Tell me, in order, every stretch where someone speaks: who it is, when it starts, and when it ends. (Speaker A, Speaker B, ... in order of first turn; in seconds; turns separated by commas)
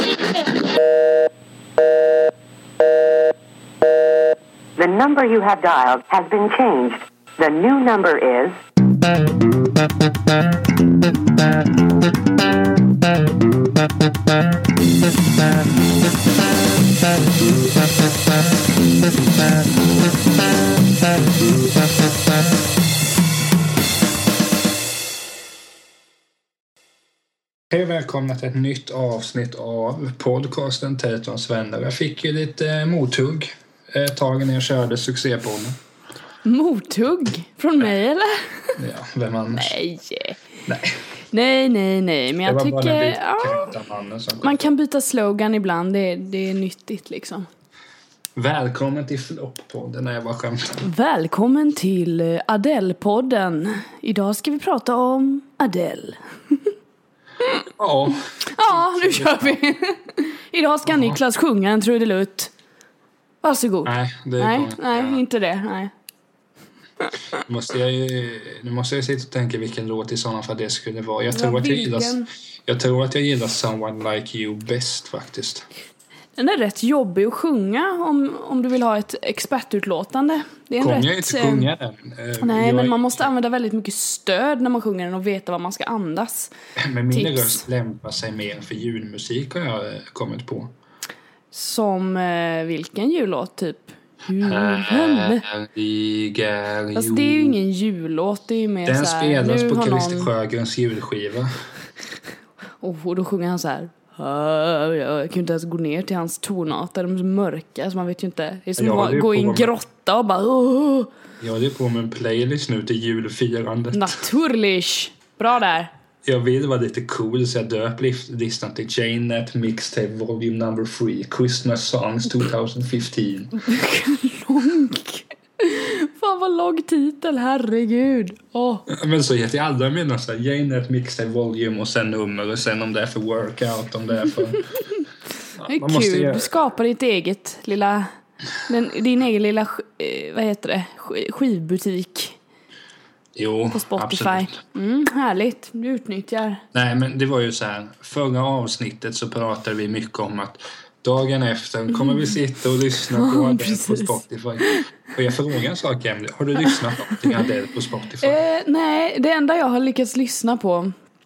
Speaker A: 4.8-8.6, Speaker B: 27.7-35.8, Speaker C: 36.5-38.8, Speaker B: 38.8-39.8, Speaker C: 39.6-40.4, Speaker B: 40.7-41.0, Speaker C: 41.3-43.7, Speaker B: 42.5-44.6, Speaker C: 44.4-47.5, Speaker B: 48.4-50.9, Speaker C: 50.8-56.7, Speaker B: 57.8-59.6, Speaker C: 58.5-62.5, Speaker B: 60.9-61.2, Speaker C: 63.4-65.9, Speaker B: 63.9-65.2, Speaker B: 67.3-75.7, Speaker C: 71.3-72.3, Speaker C: 76.4-81.7, Speaker B: 80.8-83.3, Speaker C: 82.4-86.5, Speaker B: 86.8-90.7, Speaker C: 87.1-87.6, Speaker C: 91.5-95.4, Speaker B: 94.4-97.6, Speaker C: 97.0-100.3, Speaker B: 98.9-101.5, Speaker C: 102.8-111.1, Speaker B: 108.8-109.7, Speaker B: 111.4-114.2, Speaker C: 113.9-115.9, Speaker B: 116.2-123.6, Speaker C: 123.6-128.9, Speaker B: 128.9-134.7, Speaker B: 135.6-136.5, Speaker C: 135.7-138.1, Speaker C: 138.6-142.4, Speaker B: 143.3-144.6, Speaker C: 143.7-146.6, Speaker B: 146.7-158.4, Speaker C: 151.9-152.3, Speaker C: 153.1-154.9, Speaker C: 156.6-157.2, Speaker C: 158.2-160.9